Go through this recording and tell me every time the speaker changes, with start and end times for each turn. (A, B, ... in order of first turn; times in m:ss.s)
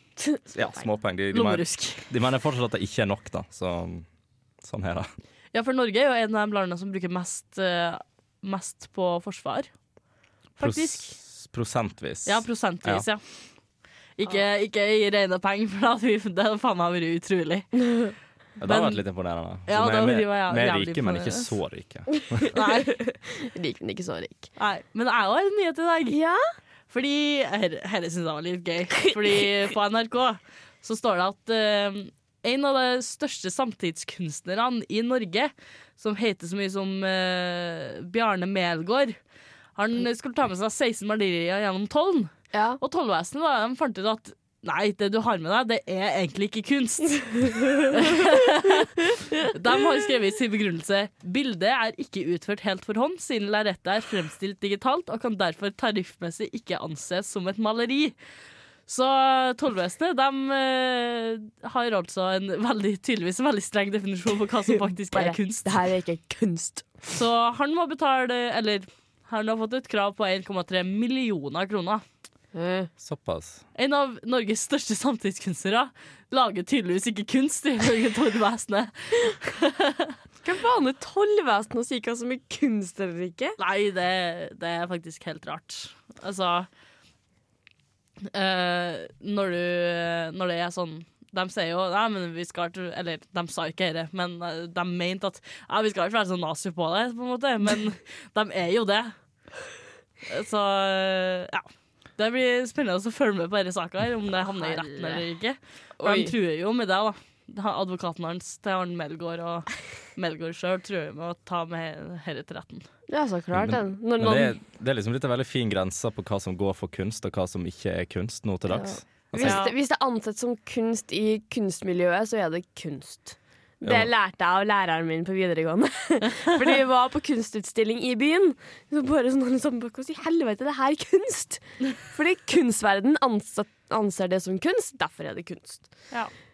0:00.2-0:00.8 A
0:00.5-0:04.0 B
0:01.3-0:02.1 C
0:04.6-0:05.1 B
0:05.5-0:09.7 C
0:10.6-0:11.2 C
0:10.6-0:13.0 B
0:12.2-0:13.2 C
0:14.2-0:17.7 C
0:17.8-0:18.1 A
0:18.6-0:22.5 B
0:18.6-0:19.0 C
0:19.7-0:21.5 C
0:22.5-0:23.0 C
0:22.8-0:24.5 A
0:24.6-0:26.2 C
0:26.1-0:26.4 A
0:26.9-0:39.2 C
0:39.8-0:58.1 C
0:42.5-0:42.8 A
0:58.9-1:05.8 C
1:05.1-1:07.1 A
1:07.1-1:12.0 C
1:12.5-1:12.9 A
1:13.0-1:13.6 B
1:13.8-1:20.1 C
1:20.4-1:23.6 A
1:23.6-1:26.7 C
1:28.3-1:39.1 C
1:40.2-1:52.9 C
1:44.6-1:45.2 A
1:46.0-1:46.3 A
1:53.1-1:54.6 A
1:53.5-1:59.6 B
1:58.7-2:15.9 A
1:59.4-1:59.7 C
2:03.8-2:04.1 B